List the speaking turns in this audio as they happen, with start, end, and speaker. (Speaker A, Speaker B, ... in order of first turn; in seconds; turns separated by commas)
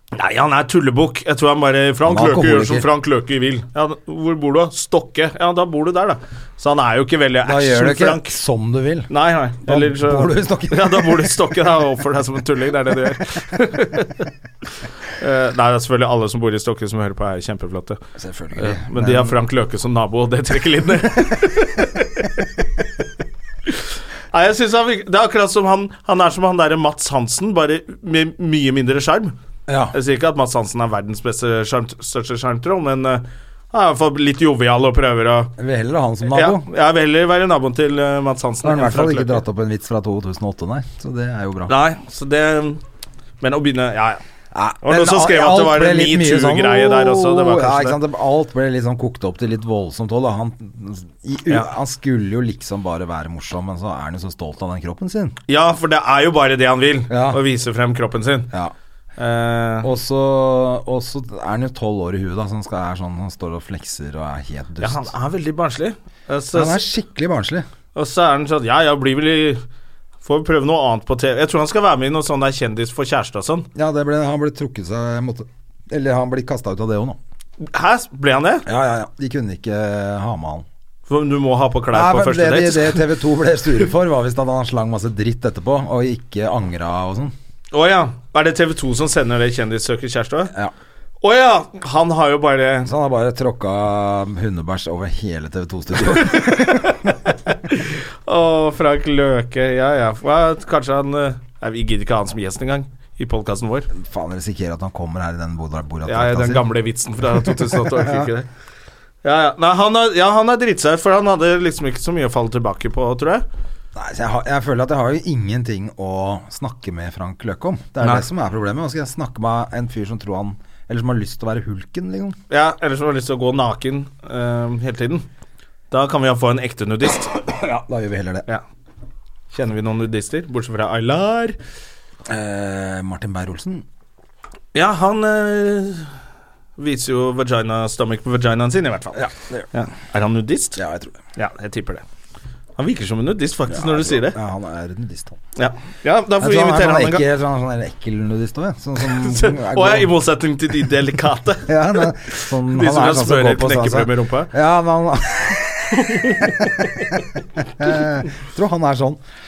Speaker A: 0.1-8.3, Speaker B: 2.0-2.9, Speaker B: 7.4-9.1, Speaker A: 9.1-14.3, Speaker B: 9.7-11.3, Speaker A: 15.2-18.0, Speaker B: 18.1-19.4, Speaker A: 18.6-22.4, Speaker A: 23.7-29.3, Speaker B: 29.7-29.9, Speaker A: 29.9-35.5, Speaker B: 35.6-36.6, Speaker A: 36.2-39.4, Speaker B: 38.6-41.7, Speaker A: 41.7-42.8, Speaker A: 43.4-44.2, Speaker B: 44.5-55.4, Speaker A: 44.8-48.0, Speaker A: 55.5-58.5, Speaker B: 57.1-57.4, Speaker A: 59.2-59.9, Speaker B: 59.8-65.1, Speaker A: 64.8-66.8, Speaker B: 66.5-67.7, Speaker A: 67.9-69.6, Speaker A: 70.2-73.7, Speaker B: 73.7-77.2, Speaker A: 77.6-78.6, Speaker B: 78.7-80.7, Speaker A: 81.1-83.0, Speaker B: 81.9-87.3, Speaker A: 87.7-90.5, Speaker A: 91.2-92.9, Speaker B: 92.8-97.0, Speaker A: 96.3-97.0, Speaker A: 97.5-103.9, Speaker B: 103.9-108.3, Speaker A: 106.0-108.5, Speaker A: 109.2-113.4, Speaker B: 113.9-122.4, Speaker A: 122.5-125.2, Speaker A: 125.9-127.3, Speaker B: 127.3-128.4, Speaker A: 129.5-131.6, Speaker B: 132.3-133.8, Speaker A: 134.7-136.1, Speaker A: 136.8-139.2, Speaker B: 139.1-139.7, Speaker A: 139.7-140.8, Speaker B: 140.8-141.2, Speaker A: 141.3-142.0, Speaker A: 142.8-144.4, Speaker B: 143.7-145.4, Speaker A: 145.6-147.2, Speaker B: 146.4-150.1, Speaker A: 149.0-154.5, Speaker B: 151.7-159.2, Speaker A: 155.9-157.2